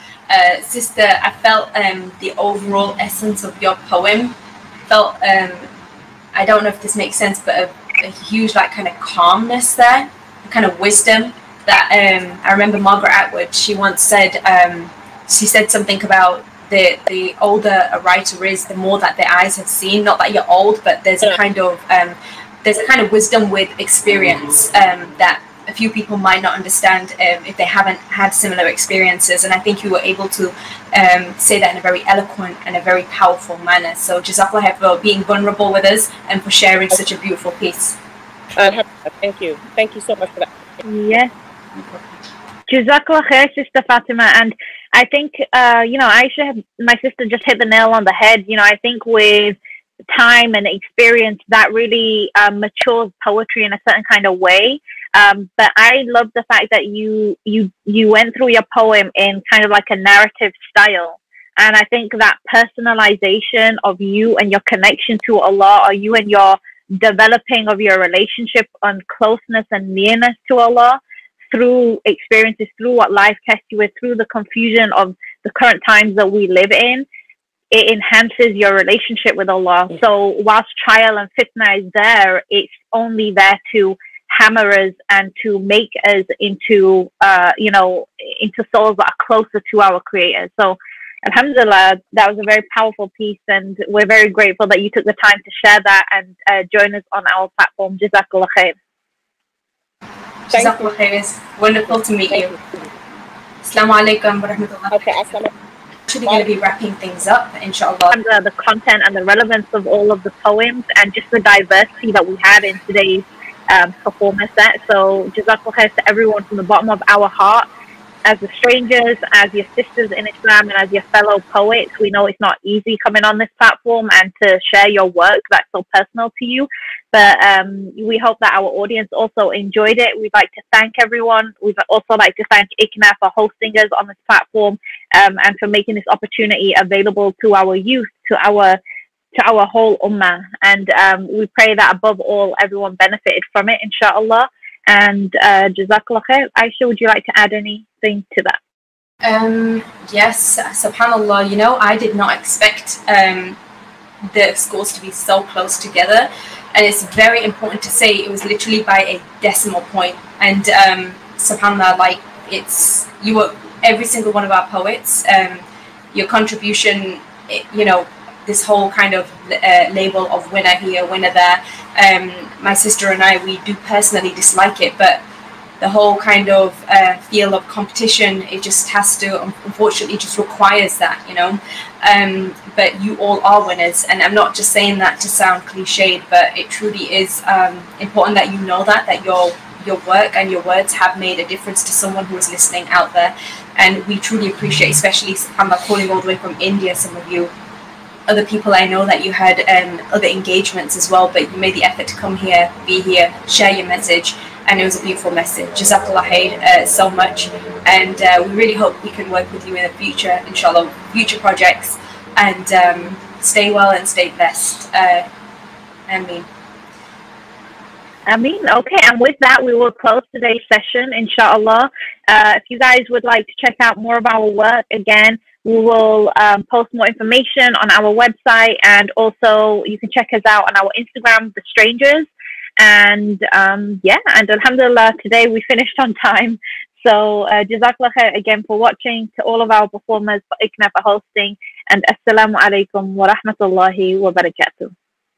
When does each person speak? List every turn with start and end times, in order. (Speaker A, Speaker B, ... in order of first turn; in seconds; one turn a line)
Speaker A: 0.3-4.3
Speaker A: 4.8-5.7
Speaker A: 6.3-38.0
Speaker B: 38.5-40.6
Speaker C: 40.8-41.3
Speaker C: 42.7-49.5
Speaker C: 50.1-71.0
Speaker C: 71.5-77.0
Speaker C: 77.7-98.7
Speaker A: 100.5-102.5
Speaker B: 100.5-100.9
Speaker B: 102.3-102.9
Speaker A: 103.6-105.2
Speaker B: 104.9-105.5
Speaker A: 106.1-108.2
Speaker B: 106.2-106.5
Speaker C: 108.1-117.7
Speaker C: 118.2-138.8
Speaker C: 139.3-148.6
Speaker A: 149.2-153.6
Speaker A: 154.3-165.6
Speaker A: 166.1-175.2
Speaker A: 175.8-197.5
Speaker A: 198.3-215.2
Speaker A: 216.1-216.5
Speaker C: 218.3-244.9